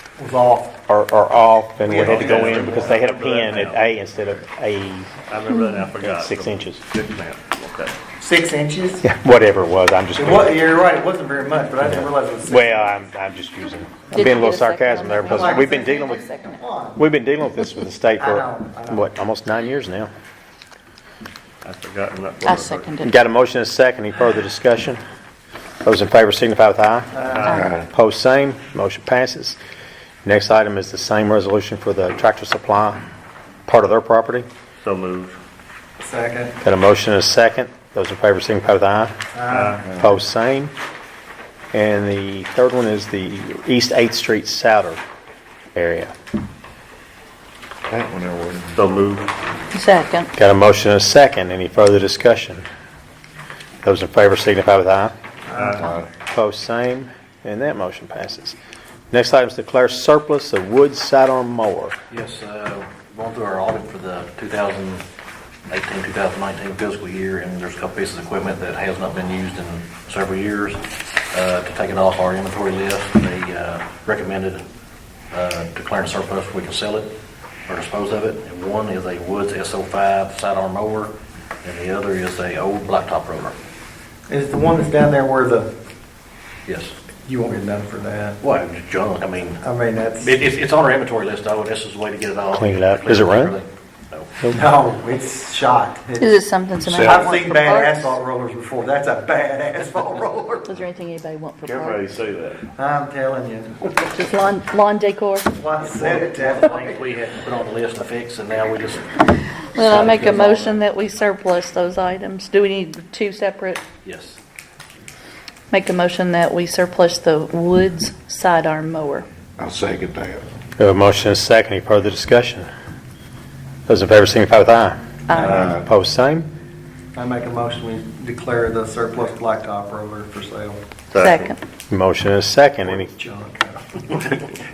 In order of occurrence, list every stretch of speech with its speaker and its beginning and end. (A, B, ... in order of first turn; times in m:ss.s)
0:00.2-0:00.7 A
0:00.9-0:05.1 B
0:01.8-0:03.0 A
0:02.0-0:04.4 C
0:05.3-0:07.9 C
0:06.0-0:06.8 B
0:08.2-0:09.0 A
0:09.0-0:10.6 B
0:10.2-0:12.8 A
0:11.9-0:16.2 B
0:14.1-0:16.6 D
0:15.3-0:17.0 A
0:17.0-0:20.1 B
0:18.2-0:19.0 A
0:21.6-0:22.9 C
0:22.4-0:23.2 D
0:23.0-0:25.0 B
0:25.8-0:27.1 B
0:27.1-0:27.6 A
0:27.3-0:27.7 C
0:27.6-0:27.8 E
0:27.8-0:29.6 B
0:30.2-0:33.0 B
0:33.7-0:34.5 B
0:34.8-0:35.4 C
0:36.0-0:36.6 A
0:36.6-0:39.1 B
0:39.3-0:39.8 A
0:39.5-0:39.8 C
0:39.9-0:40.7 B
0:41.7-0:45.0 B
0:45.7-0:46.1 B
0:47.9-0:48.8 E
0:48.8-0:49.3 C
0:49.7-0:50.3 D
0:50.3-0:52.6 B
0:53.8-0:55.1 B
0:55.5-0:55.9 C
0:55.8-0:56.1 E
0:56.3-0:58.5 B
0:59.1-1:02.0 B
1:02.1-1:05.0 F
1:05.7-1:14.6 F
1:15.3-1:17.1 F
1:17.7-1:23.6 F
1:24.3-1:25.7 A
1:26.6-1:26.9 F
1:27.2-1:28.4 A
1:28.4-1:29.6 F
1:29.6-1:30.4 A
1:30.2-1:34.5 F
1:32.5-1:33.6 B
1:34.5-1:40.8 A
1:36.2-1:38.1 D
1:40.6-1:42.1 D
1:41.6-1:42.6 C
1:42.7-1:43.9 A
1:44.1-1:45.6 D
1:45.5-1:47.0 A
1:45.8-1:50.7 F
1:49.7-1:53.8 D
1:54.0-1:54.4 F
1:55.7-1:59.2 D
1:59.6-2:00.4 E
2:00.8-2:02.7 B
2:03.9-2:06.5 B
2:05.3-2:05.6 D
2:05.4-2:05.8 E
2:07.1-2:10.8 A
2:11.1-2:11.5 C
2:11.1-2:11.6 D
2:11.9-2:13.1 B
2:12.8-2:14.6 A